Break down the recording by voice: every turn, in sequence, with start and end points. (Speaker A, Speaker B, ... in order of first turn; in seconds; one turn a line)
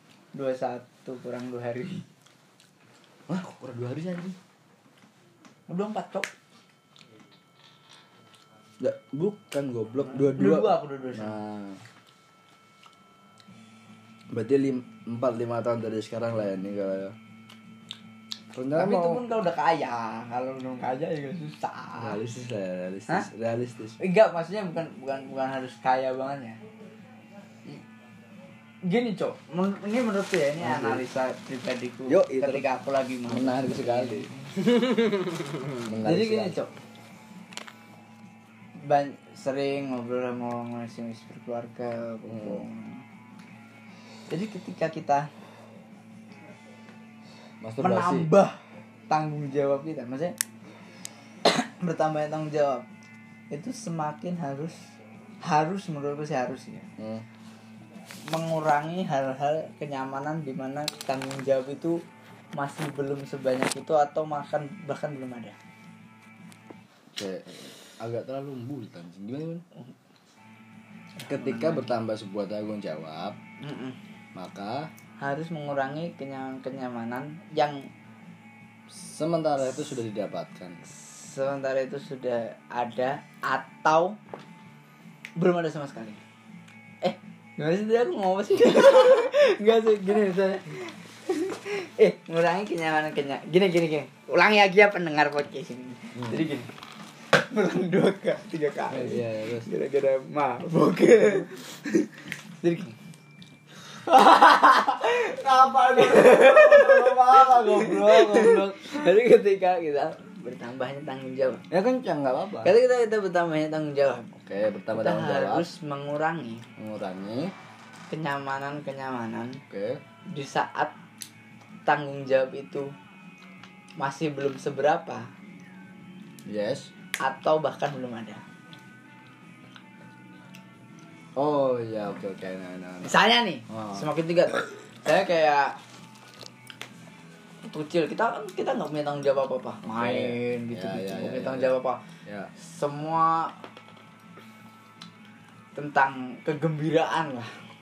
Speaker A: 0.3-2.0
Speaker B: 3.3-4.4
Speaker A: 5.7-6.3
Speaker B: 8.8-11.8
Speaker A: 10.2-11.4
Speaker B: 14.3-17.1
Speaker B: 18.5-19.2
Speaker A: 18.7-22.2
Speaker B: 22.0-24.0
Speaker A: 24.0-26.6
Speaker A: 28.8-34.4
Speaker B: 30.6-31.0
Speaker B: 32.1-32.6
Speaker B: 33.3-34.3
Speaker B: 35.8-36.5
Speaker A: 36.0-36.7
Speaker A: 38.8-43.0
Speaker B: 42.3-42.6
Speaker A: 44.3-45.3
Speaker B: 47.6-48.3
Speaker A: 47.8-50.4
Speaker A: 51.5-52.9
Speaker A: 53.5-54.8
Speaker A: 55.4-56.9
Speaker B: 57.0-57.2
Speaker A: 58.3-62.0
Speaker A: 62.5-65.6
Speaker B: 67.1-69.6
Speaker A: 71.2-71.9
Speaker B: 71.3-73.4
Speaker A: 73.6-74.0
Speaker B: 74.3-74.9
Speaker A: 75.2-77.9
Speaker B: 78.9-80.8
Speaker A: 80.8-84.2
Speaker A: 85.4-86.2
Speaker A: 87.0-96.7
Speaker B: 96.2-96.5
Speaker A: 97.4-103.0
Speaker B: 98.9-99.7
Speaker A: 104.1-111.6
Speaker B: 105.4-108.7
Speaker B: 111.7-112.7
Speaker A: 112.6-114.3
Speaker B: 114.3-115.7
Speaker A: 114.9-116.6
Speaker B: 116.8-117.5
Speaker A: 118.1-119.6
Speaker B: 119.7-120.0
Speaker A: 120.3-120.9
Speaker A: 121.9-122.9
Speaker A: 124.0-125.3
Speaker B: 126.5-126.9
Speaker A: 127.2-128.4
Speaker B: 131.4-133.1
Speaker A: 133.0-135.8
Speaker B: 133.7-134.1
Speaker A: 137.6-142.0
Speaker B: 139.9-141.7
Speaker B: 142.2-142.5
Speaker A: 142.6-143.5
Speaker A: 145.8-147.5